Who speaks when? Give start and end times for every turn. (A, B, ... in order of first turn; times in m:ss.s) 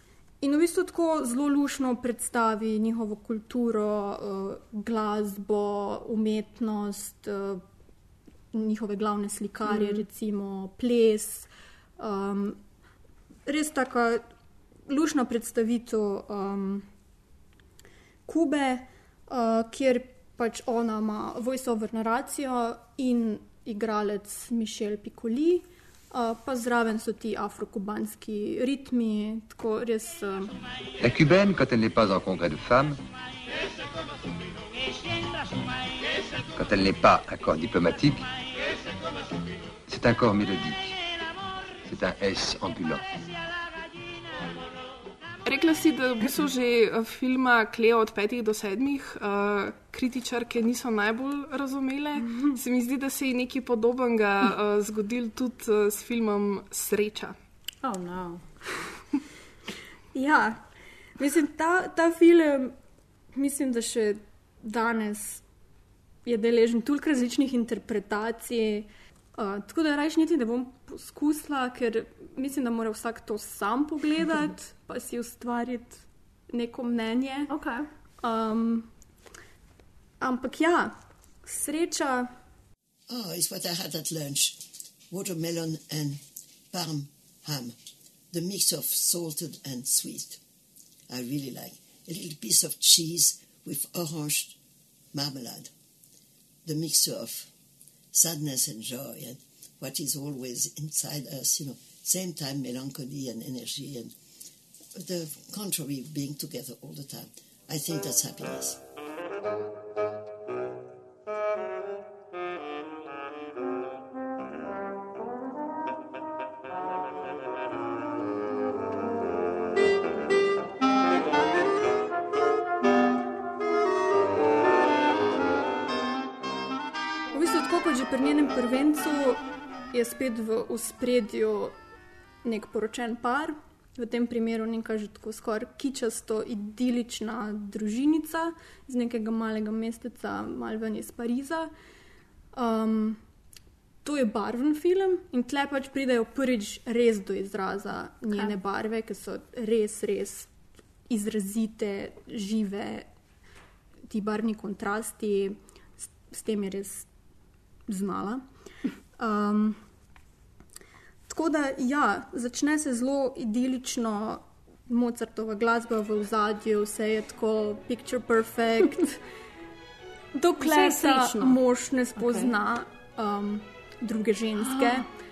0:00.4-0:07.6 A
0:08.5-0:12.6 A
0:09.7-0:10.0 B
0:13.4-0:14.2 A
0:14.9-0:16.8 A
0:18.3-0:30.5 A
0:31.0-0:33.0 C
0:36.6-0:38.2 C
0:39.9-0:40.9 C
0:41.8-0:43.0 C
0:45.4-0:57.3 D
0:57.8-0:58.4 B
1:00.1-1:00.6 A
1:01.2-1:02.7 A
1:03.3-1:05.4 A
1:06.2-1:17.5 A
1:17.5-1:17.9 B
1:18.2-1:18.9 A
1:20.2-1:22.3 A
1:23.1-1:27.7 E
1:28.3-1:30.4 E
1:31.1-1:34.6 E
1:35.1-1:35.7 E
1:36.6-1:37.5 E
1:38.1-1:44.1 E
1:44.9-1:48.8 E
2:07.3-2:11.7 A
2:12.4-2:21.7 A
2:22.5-2:23.2 A
2:24.0-2:30.5 A
2:28.3-2:28.6 B
2:31.1-2:33.1 A
2:34.1-2:37.1 A
2:37.9-2:38.4 A
2:39.2-2:39.8 A
2:41.3-2:49.2 A
2:50.3-2:55.1 A
2:50.6-2:51.6 B
2:52.2-2:52.5 B
2:54.6-2:55.0 B